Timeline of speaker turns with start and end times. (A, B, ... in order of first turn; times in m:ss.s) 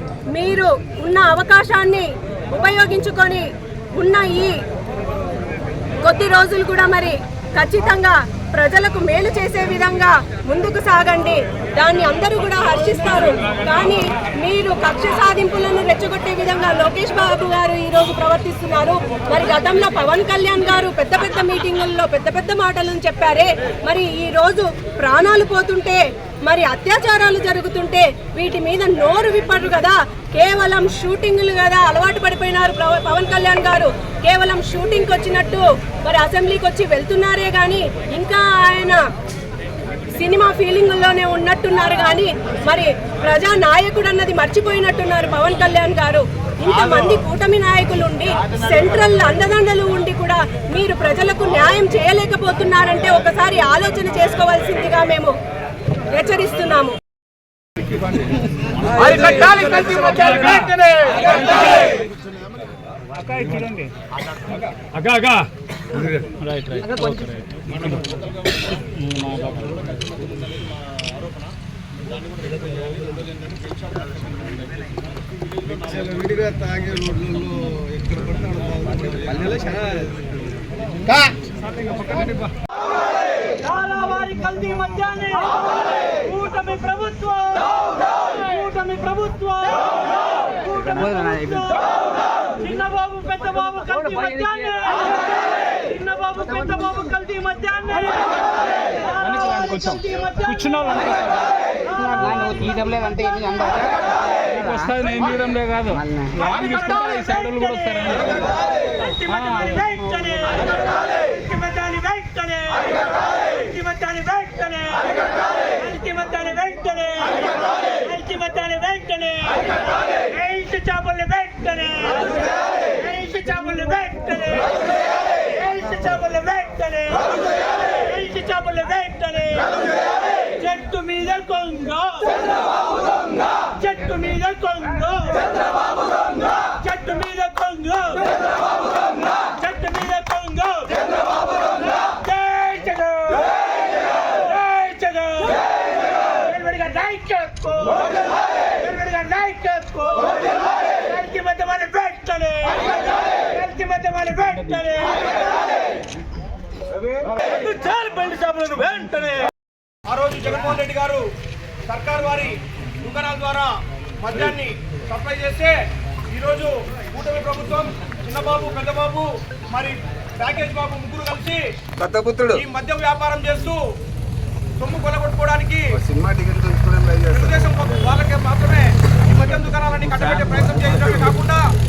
0:00.3-0:04.6 A
0:06.0-0:39.0 A
0:40.1-0:55.4 A
0:56.0-0:57.0 A
0:58.9-1:01.9 B
1:00.2-1:00.6 C
1:03.3-1:03.9 C
1:04.9-1:05.5 C
1:06.3-1:08.0 C
1:08.9-1:09.7 C
1:16.1-1:16.5 D
1:23.4-1:39.2 E
1:39.2-1:41.5 C
1:39.7-1:40.4 E
1:42.1-1:42.7 C
1:44.5-1:48.4 C
1:46.3-2:15.6 E
1:49.3-1:50.1 C
2:16.1-2:35.4 E
2:37.4-2:39.5 E
2:37.8-2:39.2 B
2:40.1-2:41.3 B
2:41.9-2:45.8 B
2:46.3-2:51.6 B
2:52.0-2:52.6 D
2:52.5-2:53.8 B
2:54.8-2:55.9 B
2:55.9-2:58.0 D
2:57.3-3:01.7 B